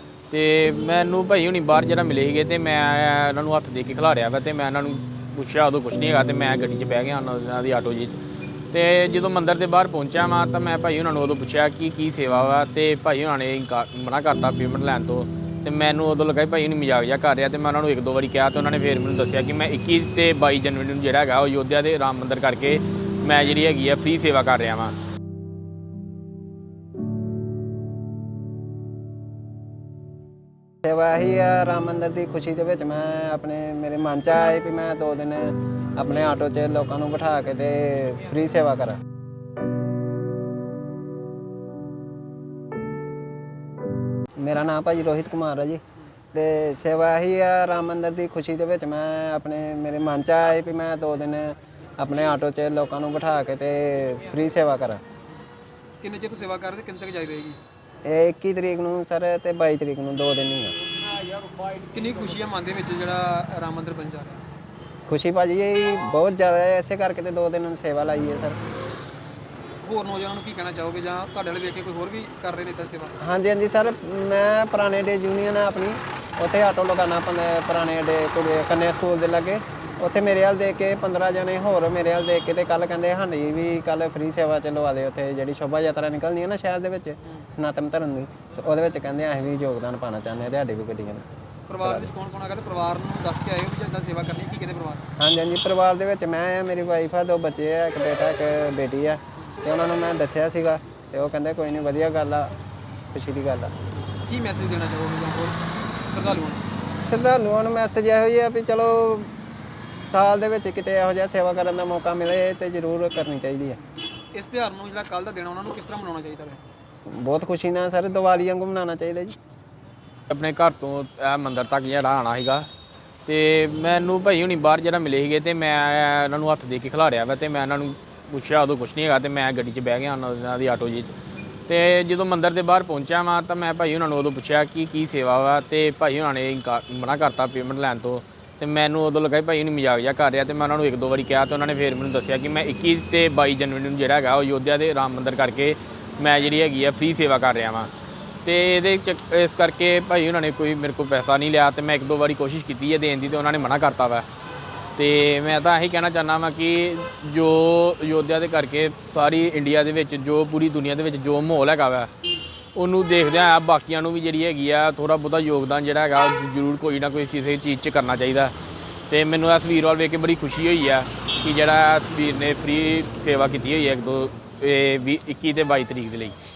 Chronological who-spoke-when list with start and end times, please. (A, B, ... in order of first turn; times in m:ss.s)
0:00.3-0:08.2 A
0:08.7-0:24.9 A
0:30.8-0:39.0 B
0:44.4-0:45.8 B
0:46.3-0:55.0 B
0:56.0-0:57.6 C
0:58.0-1:00.8 B
1:01.1-1:02.0 A
1:01.9-1:04.4 C
1:05.1-1:08.6 B
1:09.8-1:13.2 C
1:13.2-1:31.3 B
1:31.7-1:35.0 C
1:31.8-1:32.1 B
1:35.2-1:42.5 B
1:43.1-1:43.7 B
1:44.3-1:45.6 C
1:46.1-1:46.7 C
1:47.0-1:49.3 B
1:50.0-1:53.8 B
1:54.3-1:56.6 C
1:57.1-1:59.4 B
2:00.3-2:02.7 A
2:03.3-2:11.2 A
2:11.7-2:27.9 A
2:28.4-2:34.3 A
2:35.0-2:42.1 A
2:42.8-2:48.5 A
2:49.1-2:56.4 A